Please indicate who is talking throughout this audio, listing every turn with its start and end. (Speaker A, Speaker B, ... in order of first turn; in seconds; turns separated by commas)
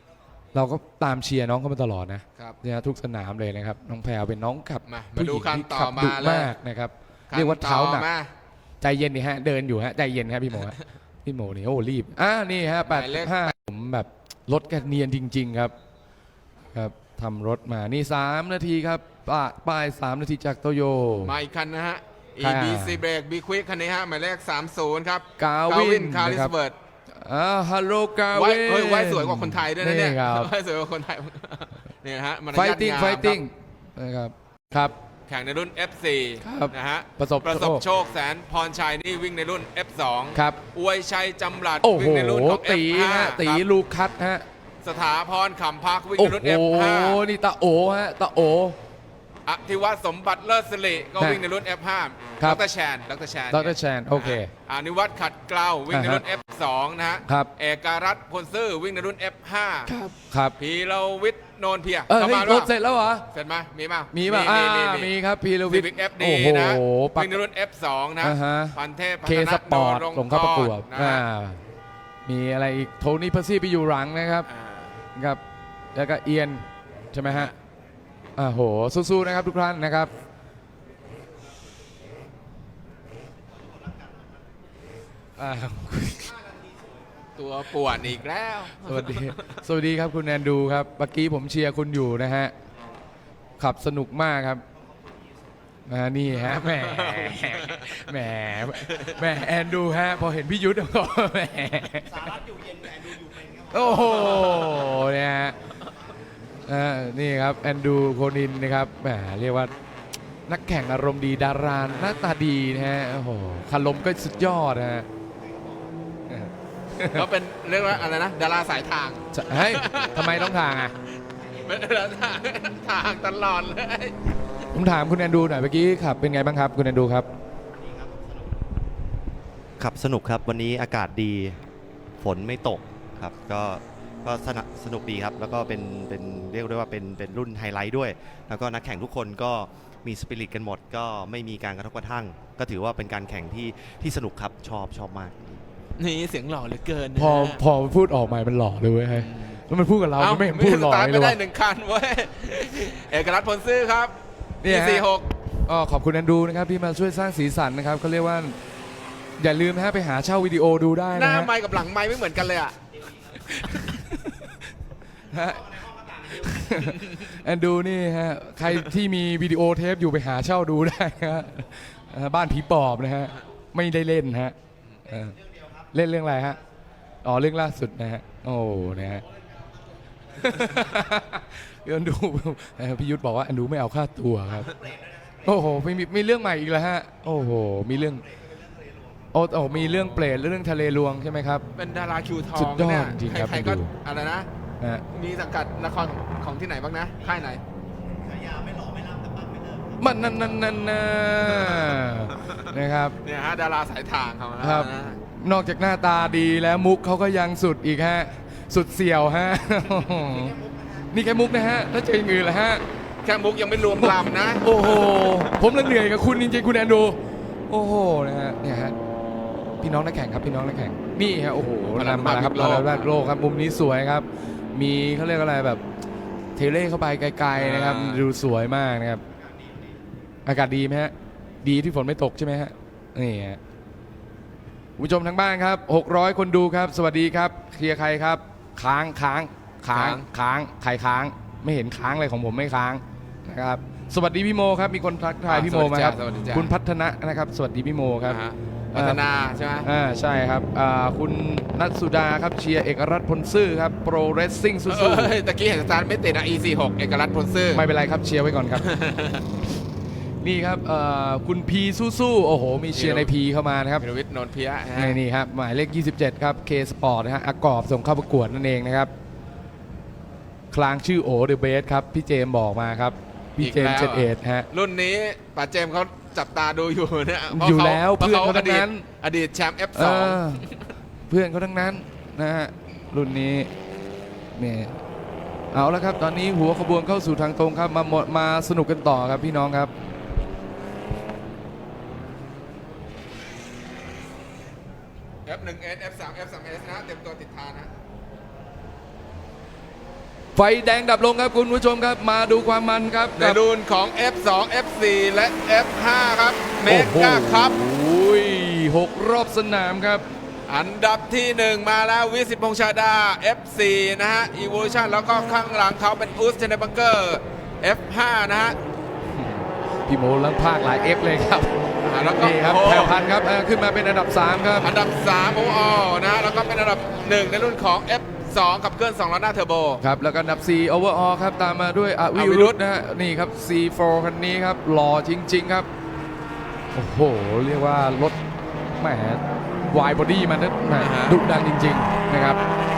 Speaker A: 0.5-8.1, Speaker B: 4.8-6.5, Speaker B: 7.3-8.3, Speaker A: 8.8-15.7, Speaker B: 12.9-13.5, Speaker A: 16.7-21.3, Speaker B: 21.2-26.7, Speaker A: 22.4-23.0, Speaker A: 25.4-26.5, Speaker A: 27.2-30.5, Speaker B: 28.3-33.4, Speaker A: 32.5-34.9, Speaker B: 35.3-43.6, Speaker A: 36.4-37.8, Speaker A: 40.3-40.6, Speaker A: 41.8-44.4, Speaker B: 44.8-47.2, Speaker A: 46.2-48.8, Speaker B: 49.5-59.9, Speaker A: 53.5-54.5, Speaker A: 55.9-56.2, Speaker A: 59.9-60.5, Speaker B: 60.6-62.7, Speaker A: 62.1-63.2, Speaker B: 63.3-65.1, Speaker A: 64.1-67.4, Speaker B: 65.7-71.2, Speaker A: 68.2-71.6, Speaker A: 72.2-74.5, Speaker B: 74.5-74.9, Speaker A: 75.2-75.4, Speaker A: 75.9-77.5, Speaker A: 78.4-80.1, Speaker A: 85.4-86.3, Speaker B: 87.4-89.5, Speaker A: 88.8-92.5, Speaker A: 93.6-94.6, Speaker A: 95.9-102.4, Speaker B: 96.4-98.0, Speaker B: 98.9-99.1, Speaker A: 103.6-105.5, Speaker A: 106.7-109.7, Speaker A: 110.5-115.1, Speaker A: 116.3-117.3, Speaker B: 117.1-120.6, Speaker A: 119.3-120.9, Speaker B: 121.5-124.1, Speaker A: 124.7-127.3, Speaker C: 129.8-131.6, Speaker C: 132.2-145.5, Speaker B: 146.0-147.6, Speaker A: 147.1-151.4, Speaker B: 149.2-149.5, Speaker B: 150.2-154.1, Speaker A: 154.6-155.1, Speaker B: 154.6-155.3, Speaker A: 155.7-158.6, Speaker A: 159.4-161.5, Speaker B: 161.1-162.8, Speaker A: 163.4-164.5, Speaker A: 165.3-174.5, Speaker B: 167.0-167.3, Speaker A: 175.1-175.4, Speaker A: 175.9-176.6, Speaker A: 177.2-179.2, Speaker A: 180.4-184.7, Speaker A: 185.4-188.2, Speaker A: 189.3-191.6, Speaker B: 191.7-194.5, Speaker A: 192.6-193.9, Speaker B: 195.1-197.6, Speaker A: 200.0-203.2, Speaker B: 201.4-201.9, Speaker B: 203.2-205.2, Speaker A: 204.6-210.6, Speaker A: 211.1-212.8, Speaker B: 213.2-215.1, Speaker A: 213.9-217.2, Speaker A: 217.7-218.9, Speaker A: 219.8-225.8, Speaker B: 221.9-223.1, Speaker A: 226.6-229.2, Speaker B: 227.5-228.2, Speaker A: 230.4-233.6, Speaker A: 235.0-248.4, Speaker B: 239.9-240.2, Speaker B: 245.5-246.7, Speaker B: 248.2-249.9, Speaker A: 248.9-249.2, Speaker A: 249.8-255.3, Speaker B: 254.9-257.8, Speaker A: 257.7-258.9, Speaker B: 258.8-259.4, Speaker A: 260.4-264.1, Speaker B: 262.9-263.3, Speaker B: 264.0-265.2, Speaker A: 264.9-269.1, Speaker A: 270.7-274.7, Speaker B: 273.6-280.8, Speaker A: 277.5-279.1, Speaker A: 279.9-280.6, Speaker A: 281.3-283.7, Speaker A: 284.6-285.0, Speaker A: 285.7-289.9, Speaker B: 295.4-297.9, Speaker A: 300.6-303.6, Speaker B: 303.4-307.8, Speaker A: 306.8-310.2, Speaker B: 310.7-318.8, Speaker A: 319.3-321.8, Speaker B: 322.0-323.1, Speaker A: 322.3-324.9, Speaker B: 324.8-330.0, Speaker A: 330.0-335.9, Speaker B: 332.3-332.8, Speaker A: 336.9-338.4, Speaker A: 339.0-342.6, Speaker B: 341.0-341.4